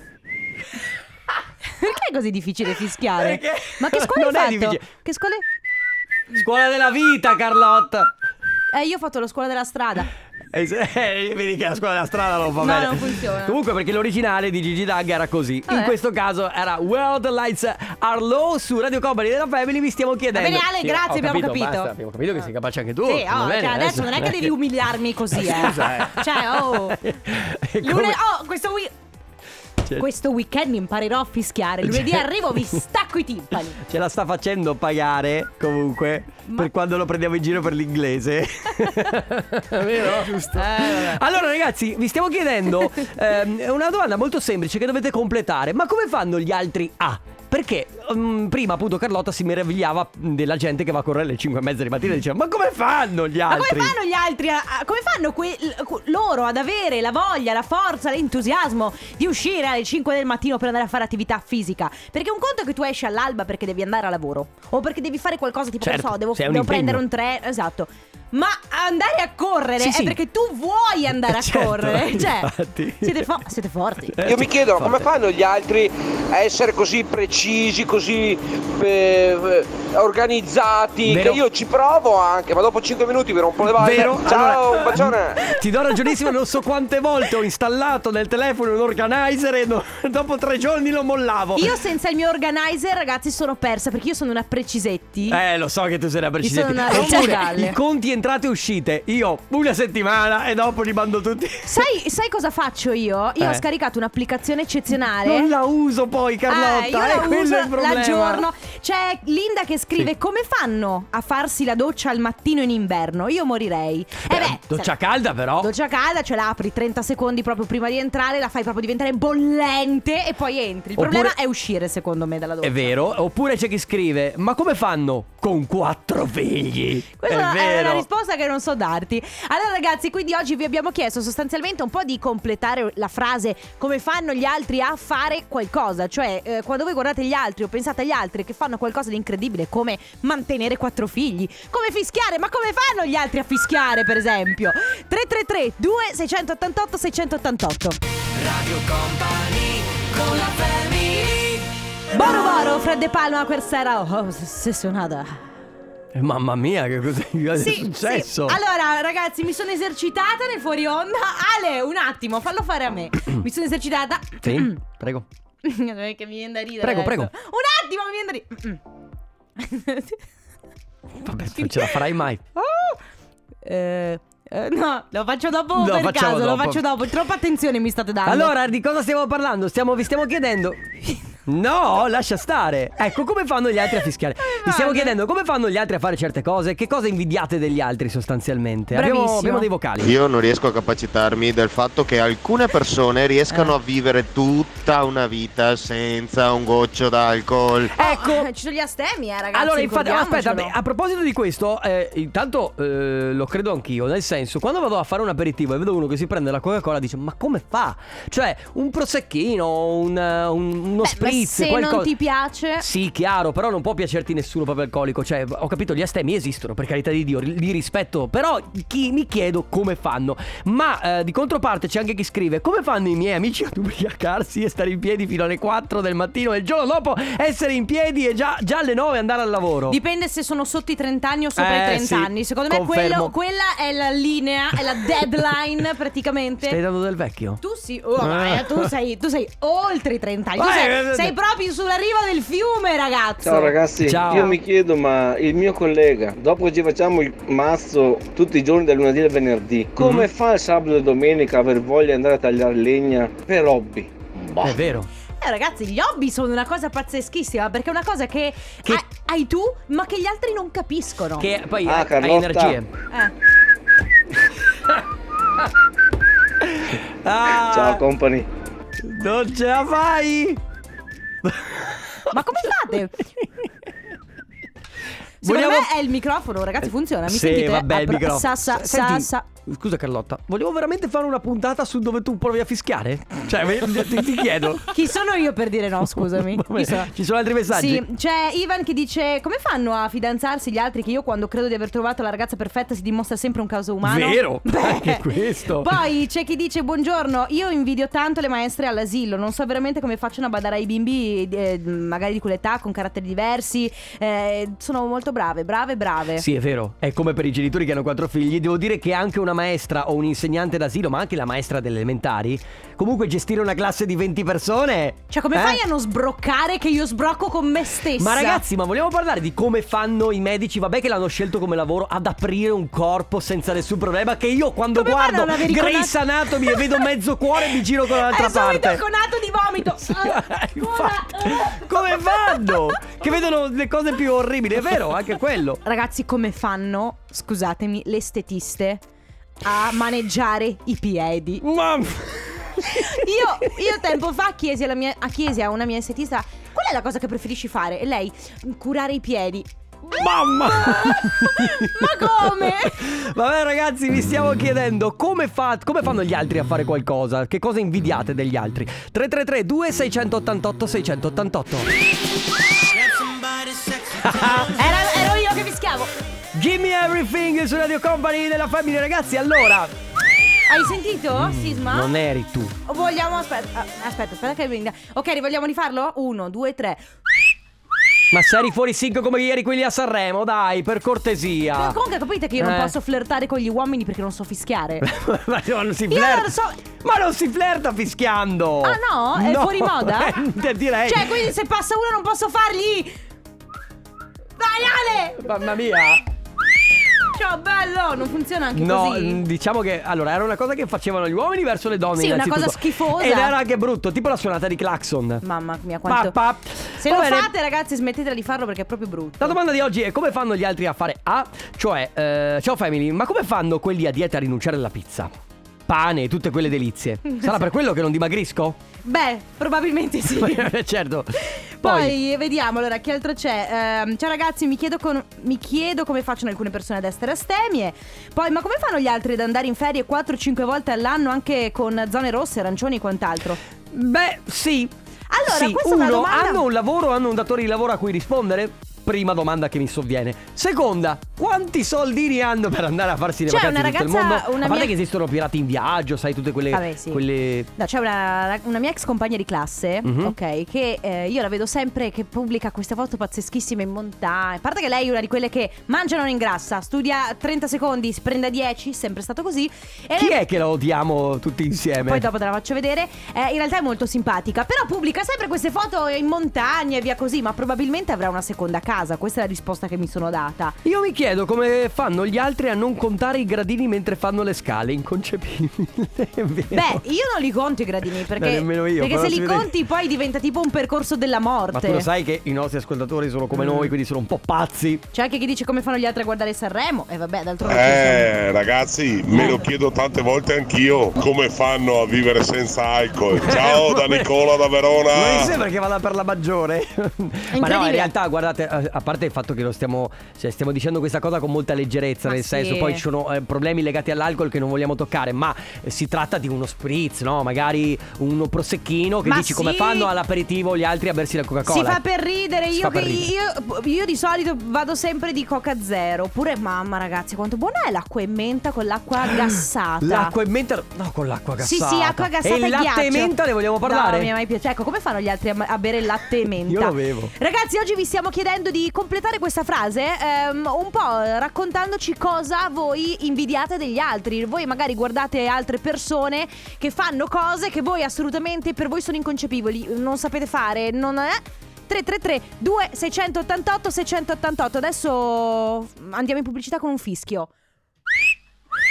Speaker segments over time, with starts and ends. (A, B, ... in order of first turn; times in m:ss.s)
0:01.8-0:05.4 A
0:03.2-0:04.9 B
0:06.3-0:08.1 B
0:08.7-0:10.1 A
0:10.5-0:24.5 B
0:12.6-0:13.6 A
0:15.7-0:15.9 A
0:20.3-0:21.9 A
0:23.0-0:27.0 A
0:25.3-0:28.2 B
0:27.8-0:28.9 A
0:30.0-0:33.8 A
0:31.8-0:32.8 B
0:33.8-0:53.9 B
0:40.6-0:41.1 A
0:53.5-1:12.5 A
1:05.8-1:07.0 B
1:09.8-1:10.2 B
1:11.3-1:13.3 B
1:13.0-1:14.2 A
1:14.1-1:15.1 B
1:14.2-1:25.4 C
1:21.1-1:21.4 B
1:23.8-1:31.7 B
1:31.6-1:35.4 A
1:35.3-1:41.8 B
1:36.4-1:37.8 A
1:41.6-1:45.5 A
1:45.2-1:48.4 B
1:46.5-1:54.9 A
1:54.3-1:55.7 B
1:55.6-2:03.0 A
2:01.0-2:01.3 B
2:02.6-2:08.0 B
2:07.2-2:28.0 A
2:28.4-2:31.6 B
2:32.1-2:35.4 A
2:36.1-2:38.6 B
2:37.6-2:44.8 A
2:44.4-2:45.2 B
2:45.6-2:48.8 A
2:46.8-2:47.3 B
2:49.6-2:50.2 A
2:51.2-2:52.4 B
2:51.6-2:52.0 A
2:52.6-2:53.0 A
2:53.6-2:58.5 A
2:55.7-2:56.8 B
2:58.2-3:00.8 B
3:01.4-3:10.1 B
3:04.4-3:05.1 A
3:08.9-3:09.7 A
3:10.0-3:17.9 D
3:17.9-3:18.5 B
3:18.0-3:20.7 A
3:19.5-3:32.1 B
3:31.0-3:32.8 A
3:32.8-3:50.0 B
3:49.9-3:56.8 A
3:51.6-3:53.3 B
3:56.6-3:57.6 B
3:57.6-4:03.7 A
3:58.2-3:58.9 B
4:00.6-4:01.3 B
4:03.4-4:14.7 E
4:04.0-4:04.6 B
4:10.0-4:10.3 B
4:14.6-4:15.1 B
4:15.4-4:21.5 A
4:21.4-4:22.9 B
4:21.8-4:22.8 E
4:26.6-4:28.0 B
4:27.6-4:28.5 E
4:29.0-4:30.6 B
4:31.4-4:32.3 B
4:32.3-4:33.2 A
4:35.4-4:35.9 B
4:35.4-4:39.4 A
4:37.3-4:44.9 B
4:44.9-4:47.1 A
4:46.4-4:48.0 B
4:47.7-5:06.4 A
4:54.0-4:55.9 B
5:06.4-5:15.8 B
5:15.3-5:18.6 A
5:18.2-5:29.0 B
5:24.9-5:27.0 A
5:28.0-5:33.0 A
5:30.0-5:35.8 B
5:35.8-5:39.0 A
5:39.6-5:41.6 A
5:41.6-5:43.7 B
5:42.8-5:53.0 A
5:50.1-6:01.9 B
6:04.0-6:04.8 B
6:04.7-6:06.1 A
6:06.5-6:09.9 B
6:10.7-6:12.1 A
6:11.3-6:12.8 B
6:12.8-6:17.0 A
6:18.3-6:22.0 B
6:21.7-6:25.0 A
6:22.6-6:22.9 B
6:25.0-6:31.4 B
6:26.1-6:26.8 A
6:28.8-6:30.4 A
6:31.0-6:33.1 A
6:34.6-6:35.5 A
6:35.4-6:36.2 B
6:37.3-6:39.4 A
6:38.7-6:45.4 B
6:42.2-6:43.5 A
6:45.4-6:46.4 A
6:46.1-6:47.5 B
6:47.0-6:49.6 A
6:49.4-6:55.3 B
6:55.9-6:58.8 B
6:59.0-7:00.7 A
7:00.3-7:02.1 B
7:01.5-7:13.6 A
7:13.9-7:14.9 B
7:15.3-7:16.6 A
7:15.4-7:27.7 B
7:23.5-7:24.9 A
7:26.7-7:27.2 A
7:27.8-7:40.4 A
7:30.0-7:30.3 B
7:40.2-7:42.2 B
7:42.0-7:50.8 A
7:50.8-7:57.0 B
7:56.7-8:02.1 A
7:58.3-7:59.7 B
8:01.7-8:05.0 B
8:03.5-8:03.9 A
8:05.1-8:08.3 A
8:07.6-8:15.6 F
8:09.3-8:09.6 B
8:13.4-8:14.3 B
8:15.1-8:32.0 B
8:17.5-8:18.1 A
8:22.2-8:23.0 A
8:29.2-8:30.1 A
8:31.6-8:40.3 A
8:32.7-8:33.3 B
8:40.0-8:44.3 B
8:41.6-9:07.5 A
8:46.6-8:47.3 B